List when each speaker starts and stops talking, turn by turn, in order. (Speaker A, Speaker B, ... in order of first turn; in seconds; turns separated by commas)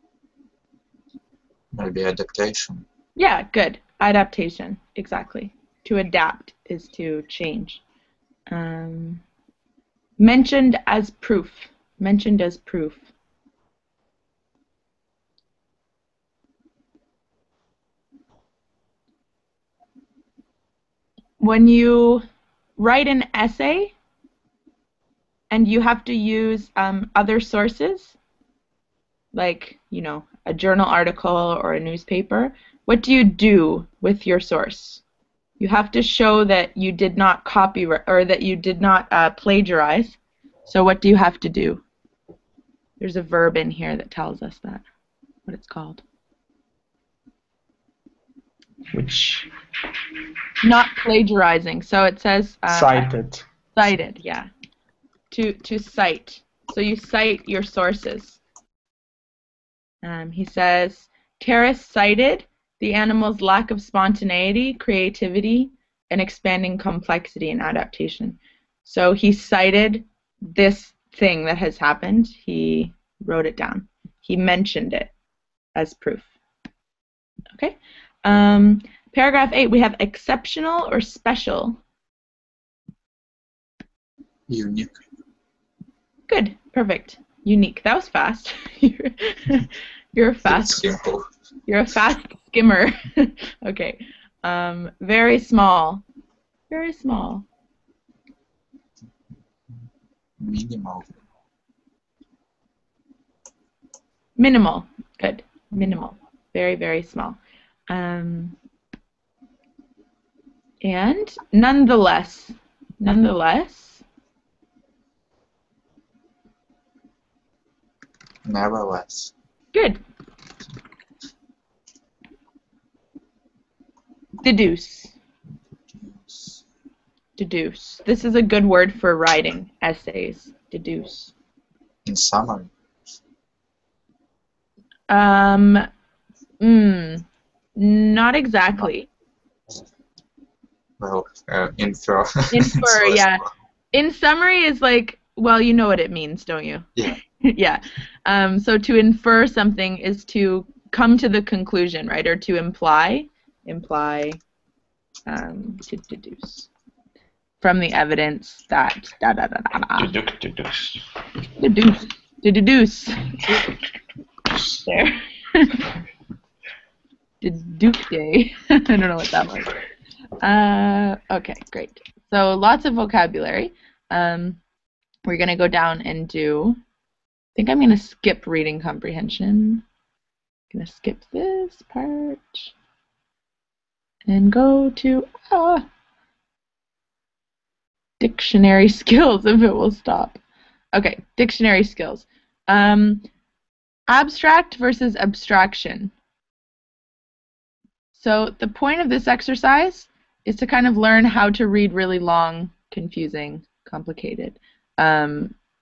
Speaker A: 1.7-2.8, Speaker B: 3.2-7.8, Speaker B: 8.5-9.2, Speaker B: 10.2-13.1, Speaker B: 21.4-22.2, Speaker B: 22.8-23.9, Speaker B: 25.5-28.1, Speaker B: 29.3-35.0, Speaker B: 35.6-41.8, Speaker B: 43.0-44.8, Speaker B: 45.5-46.0, Speaker C: 48.9-49.5, Speaker B: 50.6-53.1, Speaker C: 52.7-53.4, Speaker B: 53.7-54.5, Speaker B: 55.3-58.4, Speaker B: 60.0-75.1, Speaker B: 75.7-76.3, Speaker B: 77.6-81.8, Speaker A: 84.5-85.0, Speaker B: 86.3-91.0, Speaker A: 90.4-91.2, Speaker B: 91.7-96.0, Speaker B: 96.7-97.4, Speaker A: 100.4-101.2, Speaker B: 104.4-107.4, Speaker B: 107.9-108.5, Speaker B: 110.8-114.0, Speaker A: 118.5-119.3, Speaker B: 119.7-120.0, Speaker B: 124.4-125.1, Speaker A: 126.0-126.6, Speaker B: 127.4-131.3, Speaker A: 132.1-132.7, Speaker B: 135.1-135.9, Speaker B: 136.6-137.2, Speaker B: 137.8-139.1, Speaker A: 141.0-143.5, Speaker B: 142.5-146.9, Speaker B: 147.4-154.4, Speaker B: 155.3-156.7, Speaker B: 157.6-160.1, Speaker C: 160.0-161.0, Speaker B: 161.6-163.6, Speaker B: 164.8-165.8, Speaker B: 167.4-169.7, Speaker B: 170.4-174.6, Speaker B: 175.2-176.8, Speaker B: 177.5-179.8, Speaker B: 180.7-182.7, Speaker B: 184.2-185.8, Speaker B: 188.2-190.4, Speaker B: 190.9-193.2, Speaker B: 194.1-196.1, Speaker B: 198.1-205.5